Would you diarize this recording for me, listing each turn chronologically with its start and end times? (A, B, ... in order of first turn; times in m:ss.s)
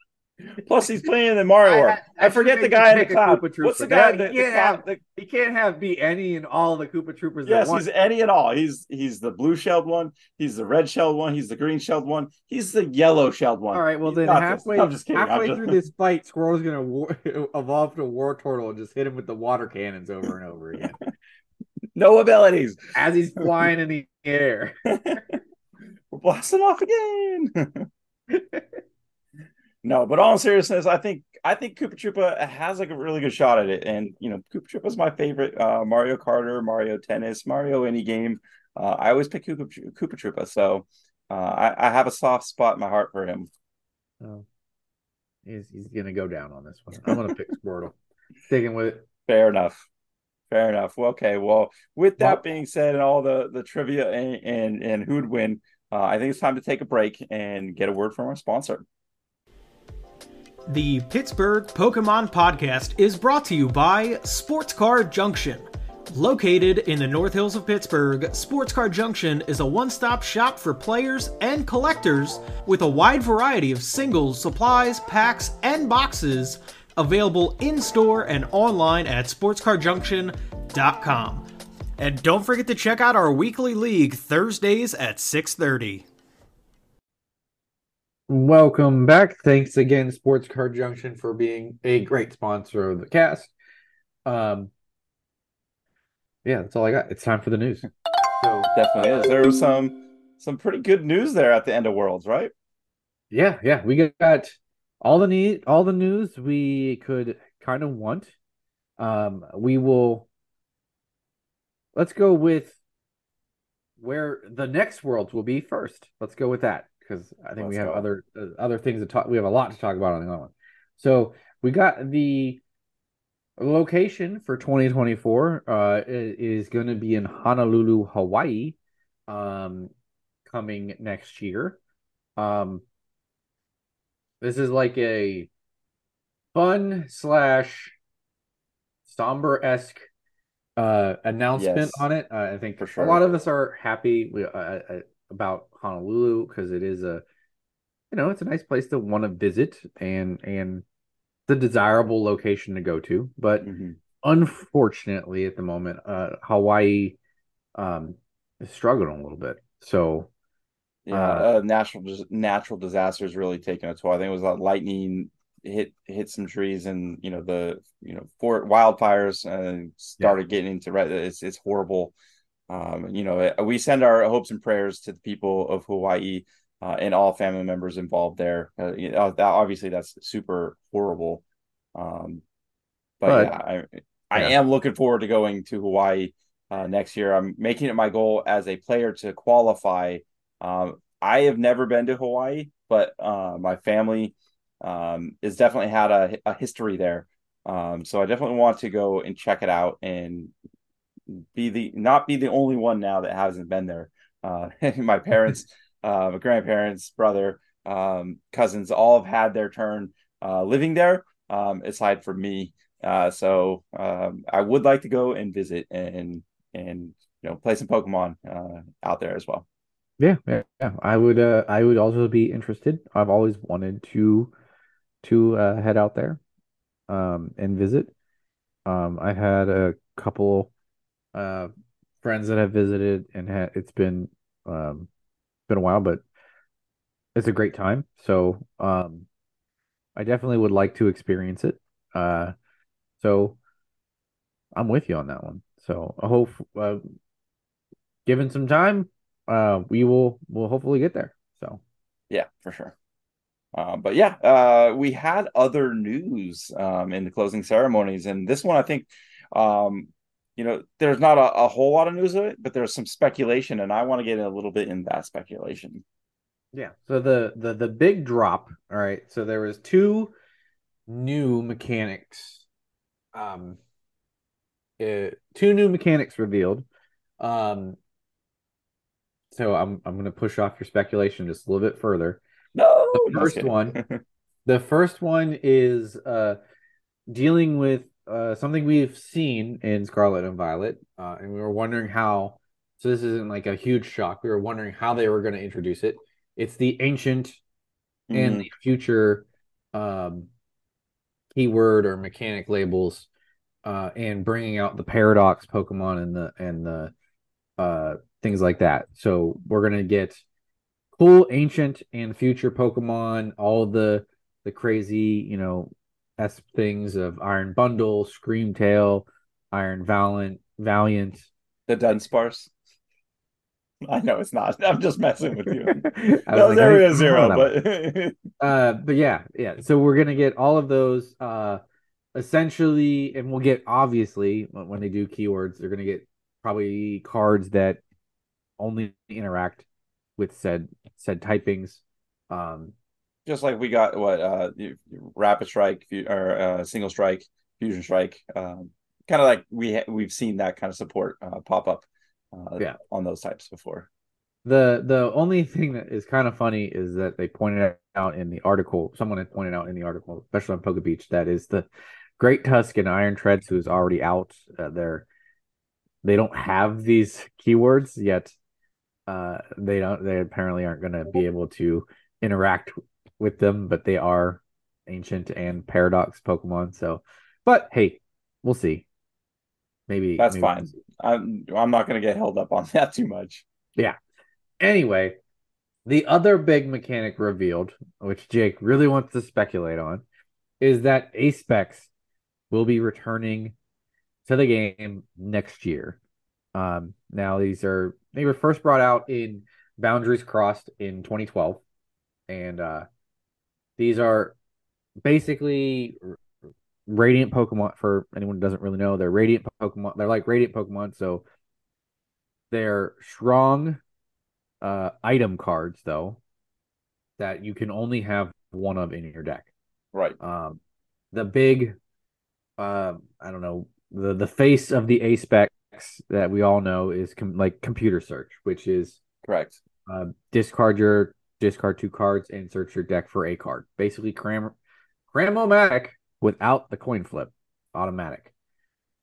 0:00.4-0:05.0 A
0:01.6-0:07.8 B
0:07.4-0:15.8 A
0:13.7-0:21.0 B
0:22.0-0:23.5 A
0:22.9-0:25.2 B
0:24.8-0:25.4 A
0:26.1-0:27.9 A
0:28.3-0:28.6 B
0:29.8-0:43.5 A
0:45.4-0:48.0 B
0:48.5-0:49.0 B
0:49.3-0:49.8 A
0:50.5-0:58.8 A
1:00.7-1:21.4 C
1:22.0-1:26.0 C
1:28.3-1:33.5 B
1:34.2-1:34.7 B
1:36.4-1:37.9 B
1:38.4-1:39.2 B
1:38.7-1:42.5 A
1:43.3-1:48.3 B
1:49.0-1:50.3 B
1:51.9-1:52.8 B
1:54.0-2:02.6 B
1:57.6-1:58.0 A
2:03.6-2:08.8 B
2:09.3-2:09.9 B
2:10.4-2:11.8 B
2:12.4-2:12.8 B
2:14.4-2:15.5 B
2:16.5-2:17.9 B
2:19.1-2:20.0 B
2:20.8-2:27.2 B
2:21.6-2:22.0 A
2:22.8-2:23.4 A
2:28.1-2:30.8 B
2:31.5-2:33.7 B
2:33.6-2:34.0 A
2:34.2-2:37.2 B
2:37.7-2:40.3 B
2:41.0-2:52.1 A
2:41.1-2:41.4 B
2:52.7-3:01.4 A
3:01.9-3:02.4 A
3:03.2-3:20.5 A
3:03.2-3:03.5 B
3:21.3-3:39.6 A
3:40.2-3:44.5 B
3:45.2-3:46.4 B
3:47.1-3:48.1 B
3:48.8-3:50.7 B
3:51.3-3:51.7 B
3:52.2-3:55.1 B
3:55.7-3:56.2 B
3:57.3-3:59.3 B
4:00.2-4:02.5 B
4:03.2-4:03.6 B
4:04.7-4:07.0 B
4:08.2-4:11.8 B
4:12.3-4:12.9 A
4:13.7-4:26.0 A
4:26.7-4:30.3 B
4:31.1-4:32.6 B
4:33.3-4:33.8 B
4:35.0-4:36.8 B
4:37.4-4:38.0 B
4:39.5-4:42.4 B
4:42.7-4:44.2 A
4:43.1-4:44.0 B
4:44.6-4:46.6 B
4:47.3-4:57.6 B
4:58.3-4:58.7 A
4:58.3-5:00.5 B
5:01.5-5:03.3 B
5:03.8-5:07.1 B
5:07.8-5:10.4 B
5:11.1-5:21.5 B
5:21.9-5:22.7 A
5:24.0-5:28.4 A
5:25.8-5:27.8 B
5:28.6-5:31.8 B
5:32.3-5:38.0 B
5:38.8-5:39.8 B
5:40.4-5:42.9 B
5:43.4-5:54.1 A
5:54.6-6:01.9 B
6:02.4-6:05.2 B
6:06.2-6:08.5 B
6:09.3-6:19.0 B
6:20.1-6:20.9 B
6:20.4-6:23.6 A
6:24.8-6:25.4 B
6:26.0-6:30.2 B
6:30.8-6:32.1 B
6:32.7-6:33.7 B
6:34.4-6:36.2 B
6:36.7-6:41.8 B
6:42.5-6:43.0 B
6:44.0-6:44.6 B
6:45.2-6:46.4 B
6:47.1-6:51.4 B
6:52.7-6:54.0 B
6:54.8-6:56.4 B
6:57.4-6:59.7 B
7:00.4-7:00.8 B
7:01.3-7:02.0 B
7:02.8-7:09.2 B
7:09.4-7:09.8 A
7:10.0-7:14.7 B
7:15.3-7:18.5 B